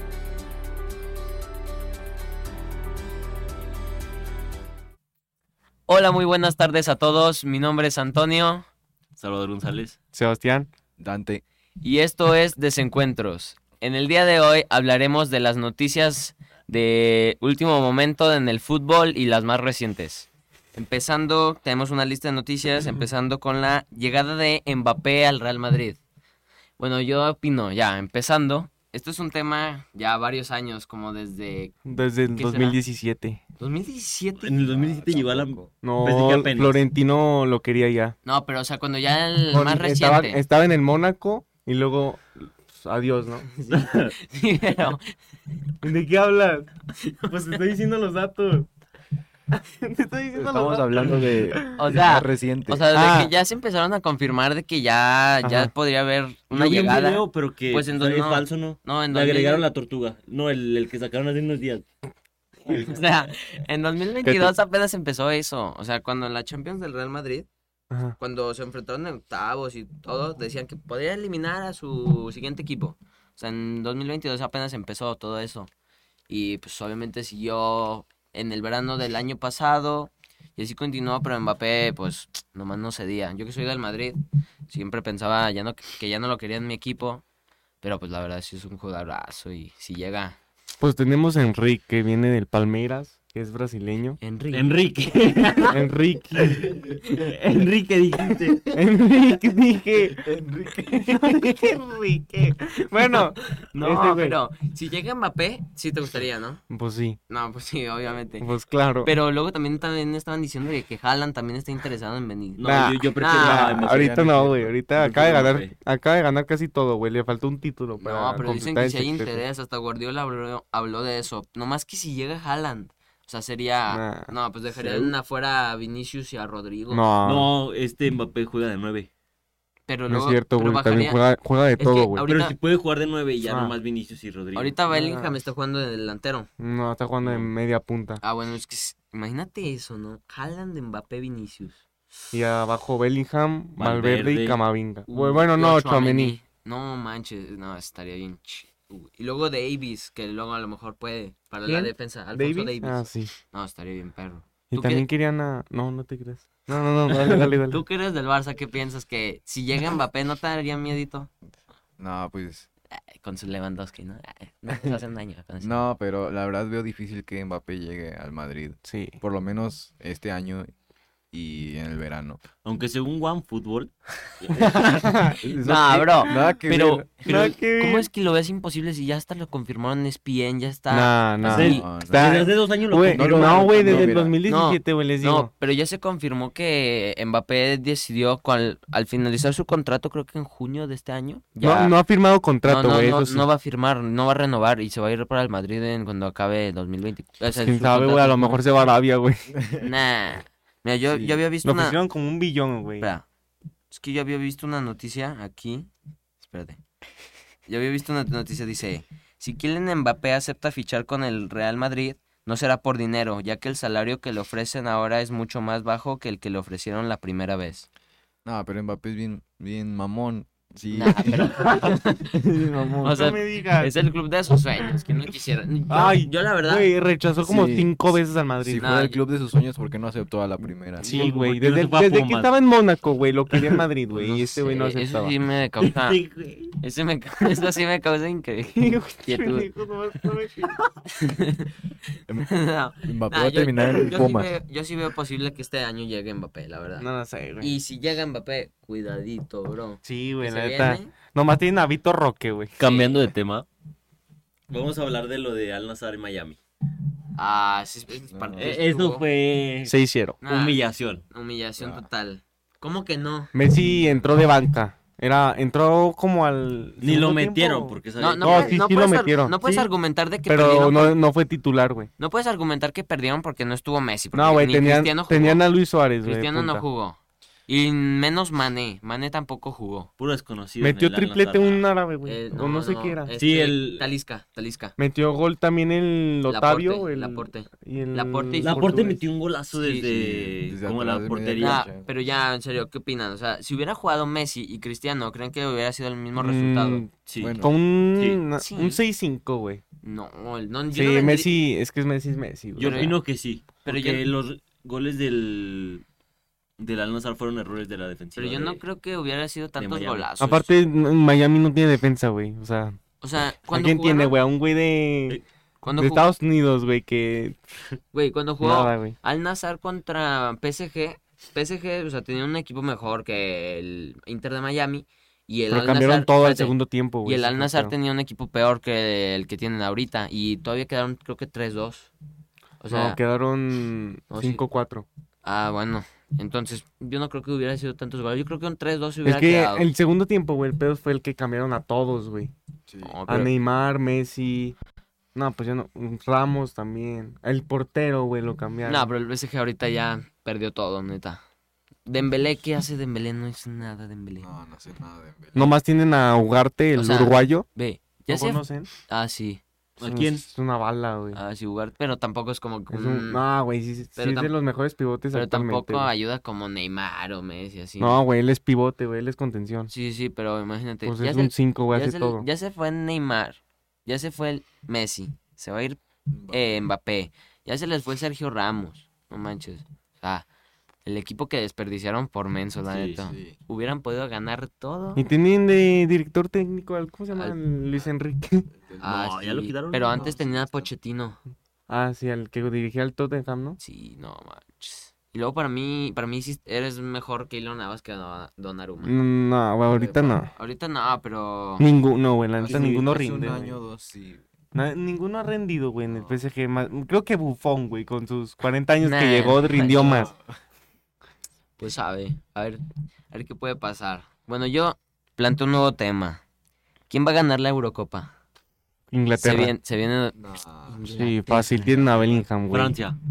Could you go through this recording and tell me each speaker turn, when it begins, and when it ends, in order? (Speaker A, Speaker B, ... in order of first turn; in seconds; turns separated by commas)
Speaker A: 5.9-8.7, Speaker B: 9.2-10.0, Speaker C: 10.1-10.7, Speaker D: 11.0-11.4, Speaker A: 11.8-26.0, Speaker A: 26.8-31.7, Speaker C: 31.8-33.4, Speaker A: 32.3-32.8, Speaker A: 33.6-35.6, Speaker B: 34.4-36.8, Speaker C: 35.8-38.1, Speaker A: 38.2-40.4, Speaker C: 39.5-43.5, Speaker A: 43.5-45.0, Speaker B: 43.7-44.1, Speaker C: 45.8-46.7, Speaker A: 47.0-47.3, Speaker C: 47.2-48.7, Speaker C: 49.5-52.0, Speaker D: 50.3-52.8, Speaker A: 51.7-59.6, Speaker C: 52.9-53.3, Speaker C: 55.4-55.7, Speaker B: 56.5-61.8, Speaker A: 62.6-67.5, Speaker C: 64.2-64.5, Speaker C: 67.9-68.2, Speaker A: 68.2-75.7, Speaker A: 76.3-87.2, Speaker A: 87.8-90.4, Speaker C: 90.8-94.2, Speaker A: 94.2-94.7, Speaker B: 94.5-95.8, Speaker C: 95.7-96.6, Speaker B: 96.4-98.7, Speaker C: 98.7-100.2, Speaker D: 100.1-101.1, Speaker C: 101.0-104.4, Speaker A: 101.3-101.7, Speaker A: 103.0-106.6, Speaker C: 106.7-107.2, Speaker A: 107.3-108.5, Speaker C: 108.4-109.1, Speaker A: 109.0-112.6, Speaker B: 112.6-115.7, Speaker C: 112.6-119.4, Speaker A: 113.2-113.9, Speaker A: 118.0-127.0, Speaker C: 123.9-124.3, Speaker B: 124.7-125.1, Speaker C: 126.9-127.5, Speaker B: 127.2-129.1, Speaker A: 129.8-131.2, Speaker C: 130.1-132.2, Speaker A: 131.8-132.5, Speaker B: 132.2-134.8, Speaker C: 133.4-133.8, Speaker A: 134.5-136.5, Speaker C: 134.9-135.4, Speaker C: 136.6-138.2, Speaker A: 138.2-141.8, Speaker C: 142.3-146.4, Speaker B: 143.8-144.6, Speaker A: 145.1-155.1, Speaker C: 151.6-153.3, Speaker C: 154.7-157.8, Speaker A: 157.6-161.3, Speaker D: 162.0-162.7, Speaker A: 162.9-165.8, Speaker D: 165.6-170.7, Speaker C: 168.8-169.2, Speaker D: 171.3-172.4, Speaker B: 172.6-175.1, Speaker C: 174.9-175.3, Speaker D: 175.4-177.4, Speaker A: 175.6-181.8, Speaker C: 177.2-178.1, Speaker C: 180.9-185.5, Speaker B: 181.5-184.1, Speaker D: 181.7-182.4, Speaker D: 183.0-184.4, Speaker A: 184.4-192.0, Speaker C: 191.6-193.5, Speaker A: 192.6-198.6, Speaker C: 197.5-199.5, Speaker A: 199.8-202.0, Speaker D: 201.1-201.4, Speaker C: 201.6-203.1, Speaker A: 203.0-203.2, Speaker A: 203.9-206.8, Speaker A: 207.7-217.9, Speaker D: 218.4-221.6, Speaker A: 220.9-222.3, Speaker D: 222.3-223.2, Speaker A: 223.0-226.9, Speaker C: 223.1-223.9, Speaker C: 225.9-229.0, Speaker D: 227.4-227.9, Speaker D: 228.6-231.2, Speaker A: 228.8-229.2, Speaker C: 231.0-235.3, Speaker B: 231.0-232.5, Speaker B: 233.5-233.8, Speaker A: 234.1-236.2, Speaker B: 235.8-236.7, Speaker A: 236.8-239.7, Speaker C: 238.8-240.7, Speaker A: 241.2-241.7, Speaker D: 242.3-244.5, Speaker A: 242.5-247.1, Speaker C: 247.0-247.8, Speaker A: 247.6-251.1, Speaker C: 250.0-252.8, Speaker B: 252.8-253.7, Speaker A: 252.8-253.1, Speaker B: 254.7-256.6, Speaker A: 257.4-259.2, Speaker D: 258.3-258.8, Speaker B: 258.6-261.2, Speaker C: 259.9-260.4, Speaker A: 260.4-263.5, Speaker D: 261.8-262.1, Speaker C: 263.5-269.9, Speaker D: 263.8-264.2, Speaker B: 267.0-268.8, Speaker A: 268.2-271.2, Speaker C: 270.4-272.1, Speaker A: 272.2-275.7, Speaker C: 274.3-276.9, Speaker A: 276.2-280.1, Speaker B: 280.2-281.8, Speaker C: 280.8-283.3, Speaker A: 282.2-284.9, Speaker B: 283.4-284.1, Speaker C: 285.0-289.2, Speaker A: 286.4-288.9, Speaker B: 288.6-291.9, Speaker A: 289.8-290.1, Speaker D: 290.6-292.1, Speaker A: 291.6-297.0, Speaker C: 296.4-299.8, Speaker B: 297.3-298.4, Speaker D: 297.4-297.7, Speaker A: 298.6-299.0, Speaker A: 300.0-301.6, Speaker C: 300.9-303.1, Speaker A: 302.8-303.2, Speaker B: 302.8-306.0, Speaker A: 303.8-304.3, Speaker B: 306.8-308.8, Speaker A: 308.4-310.7, Speaker B: 309.8-310.3, Speaker C: 310.4-313.0, Speaker A: 313.2-314.4, Speaker C: 313.7-315.4, Speaker A: 315.8-316.3, Speaker C: 316.0-317.6, Speaker A: 318.1-332.1, Speaker C: 318.6-319.1, Speaker C: 325.7-327.9, Speaker A: 332.8-333.2, Speaker C: 332.9-335.1, Speaker A: 334.3-334.6, Speaker A: 335.4-339.9, Speaker C: 339.2-342.5, Speaker D: 342.9-343.2, Speaker A: 343.0-343.5, Speaker C: 343.3-344.8, Speaker C: 345.3-349.1, Speaker A: 348.8-351.4, Speaker A: 352.1-354.5, Speaker D: 354.4-355.7, Speaker C: 355.5-357.6, Speaker A: 356.9-359.6, Speaker C: 358.3-358.9, Speaker B: 360.0-360.5, Speaker C: 360.0-361.4, Speaker A: 361.3-363.4, Speaker C: 362.9-366.1, Speaker A: 364.2-364.5, Speaker A: 365.3-368.2, Speaker C: 368.0-369.9, Speaker A: 369.9-380.4, Speaker C: 371.0-372.4, Speaker D: 376.3-376.9, Speaker A: 381.0-385.2, Speaker B: 382.9-383.2, Speaker D: 383.2-383.6, Speaker C: 385.1-388.7, Speaker D: 388.8-389.2, Speaker A: 389.0-391.4, Speaker B: 389.0-390.7, Speaker D: 390.1-390.9, Speaker C: 391.9-393.8, Speaker A: 393.8-399.1, Speaker C: 399.0-400.5, Speaker D: 399.9-400.4, Speaker A: 400.5-401.9, Speaker C: 401.8-403.8, Speaker D: 402.6-404.4, Speaker C: 404.7-410.3, Speaker D: 406.1-406.4, Speaker A: 409.0-410.2, Speaker D: 409.9-410.5, Speaker A: 411.8-416.4, Speaker A: 417.1-418.3, Speaker C: 419.1-419.8, Speaker A: 419.4-420.4, Speaker D: 420.4-421.0, Speaker A: 420.9-422.1, Speaker C: 421.1-423.0, Speaker D: 422.0-422.4, Speaker B: 422.7-423.2